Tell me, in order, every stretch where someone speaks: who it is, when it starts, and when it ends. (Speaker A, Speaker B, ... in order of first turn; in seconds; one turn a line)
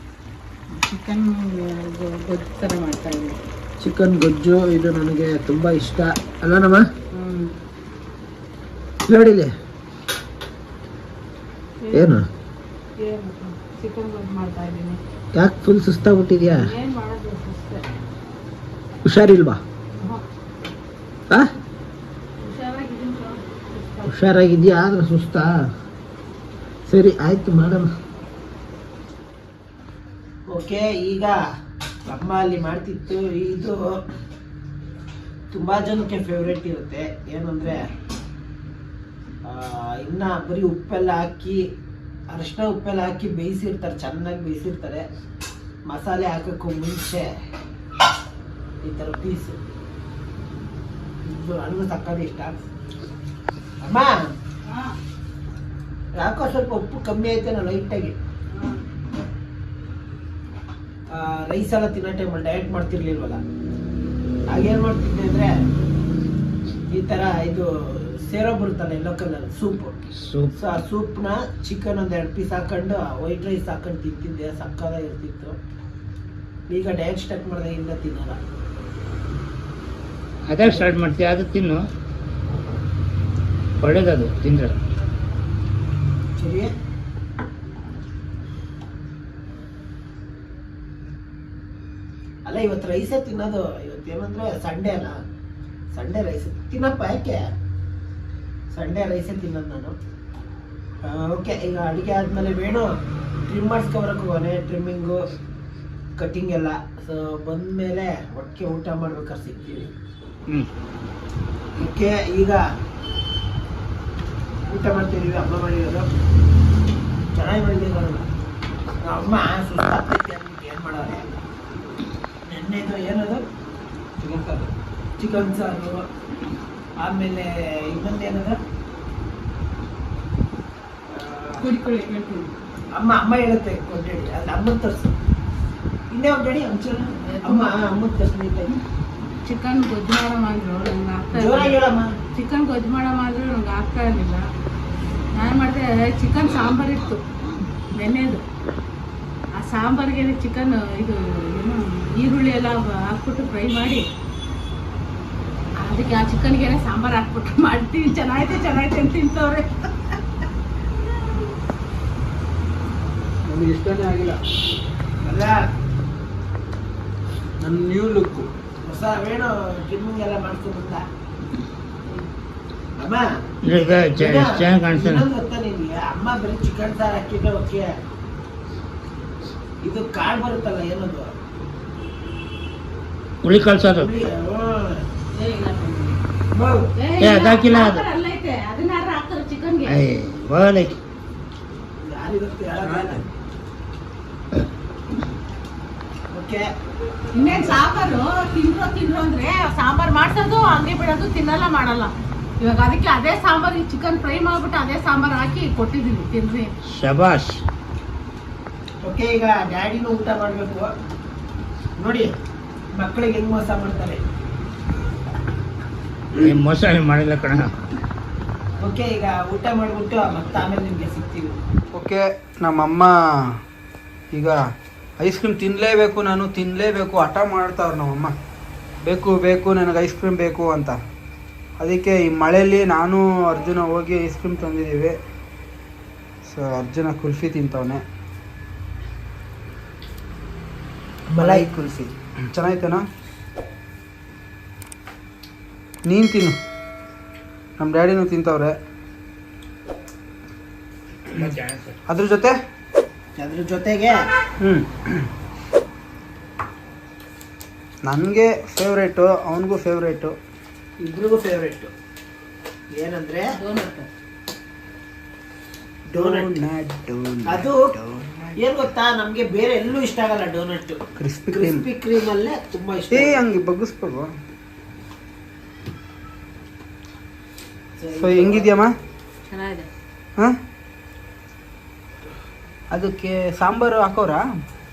Speaker A: 0.7-3.4
Speaker B: 3.8-6.8
Speaker A: 7.1-7.5
Speaker B: 9.1-9.5
Speaker A: 11.8-12.2
Speaker B: 11.9-12.2
Speaker A: 13.0-15.0
Speaker B: 15.3-16.7
Speaker A: 16.5-17.9
Speaker B: 19.1-19.6
Speaker A: 22.4-24.3
Speaker B: 24.1-25.5
Speaker B: 26.9-27.9
Speaker B: 30.5-31.4
Speaker B: 32.1-33.9
Speaker B: 35.5-37.9
Speaker B: 39.5-41.6
Speaker B: 42.3-45.0
Speaker B: 45.9-47.3
Speaker B: 48.8-49.6
Speaker B: 51.2-52.6
Speaker B: 53.8-54.1
Speaker B: 56.2-58.1
Speaker B: 61.1-63.4
Speaker B: 64.5-65.5
Speaker B: 66.9-70.0
Speaker C: 70.2-70.5
Speaker B: 70.5-75.6
Speaker B: 76.7-78.4
Speaker C: 80.5-81.9
Speaker C: 83.8-84.8
Speaker B: 86.4-86.7
Speaker B: 92.5-95.2
Speaker B: 95.9-97.4
Speaker B: 98.7-100.0
Speaker B: 101.0-102.9
Speaker B: 103.5-105.2
Speaker B: 106.2-109.9
Speaker B: 111.8-112.6
Speaker B: 114.7-116.1
Speaker B: 117.3-118.2
Speaker B: 119.0-121.2
Speaker B: 122.4-123.4
Speaker D: 124.2-124.7
Speaker B: 125.2-126.0
Speaker B: 127.0-128.6
Speaker B: 131.1-131.6
Speaker A: 131.6-132.5
Speaker B: 132.9-135.1
Speaker B: 136.1-138.8
Speaker A: 137.2-137.7
Speaker A: 139.2-141.8
Speaker B: 141.3-142.1
Speaker A: 142.3-144.4
Speaker A: 145.3-147.2
Speaker A: 147.9-148.4
Speaker A: 149.6-154.0
Speaker A: 155.8-159.7
Speaker D: 163.4-164.4
Speaker B: 165.2-165.6
Speaker D: 167.6-168.5
Speaker B: 168.8-171.0
Speaker B: 173.0-173.2
Speaker C: 173.6-175.2
Speaker B: 174.1-177.9
Speaker B: 179.8-181.3
Speaker C: 183.4-184.1
Speaker B: 183.9-185.1
Speaker A: 185.3-186.2
Speaker B: 186.5-186.9
Speaker A: 186.9-190.0
Speaker C: 187.2-188.1
Speaker C: 189.8-191.0
Speaker B: 192.0-193.2
Speaker D: 192.8-193.2
Speaker B: 196.3-196.7
Speaker A: 197.3-206.7
Speaker C: 206.9-207.6
Speaker B: 209.0-210.9
Speaker B: 212.0-212.3
Speaker B: 212.9-214.2
Speaker C: 216.3-217.7
Speaker B: 218.8-221.5
Speaker D: 221.9-223.1
Speaker D: 225.2-228.3
Speaker D: 229.1-230.9
Speaker D: 231.8-235.1
Speaker D: 236.5-238.0
Speaker B: 241.3-241.7
Speaker D: 241.4-243.0
Speaker D: 246.1-246.6
Speaker D: 247.8-248.7
Speaker C: 251.3-252.0
Speaker D: 252.1-252.5
Speaker B: 253.4-254.2
Speaker D: 254.6-255.3
Speaker D: 258.1-260.3
Speaker B: 261.0-261.9
Speaker B: 262.9-263.5
Speaker A: 263.6-264.1
Speaker B: 266.1-266.5
Speaker D: 266.1-268.6
Speaker B: 267.5-267.9
Speaker B: 268.6-271.0
Speaker D: 271.2-271.8
Speaker B: 271.5-273.4
Speaker D: 273.1-274.3
Speaker B: 278.0-278.7
Speaker D: 278.2-278.9
Speaker A: 279.5-279.9
Speaker D: 282.9-284.4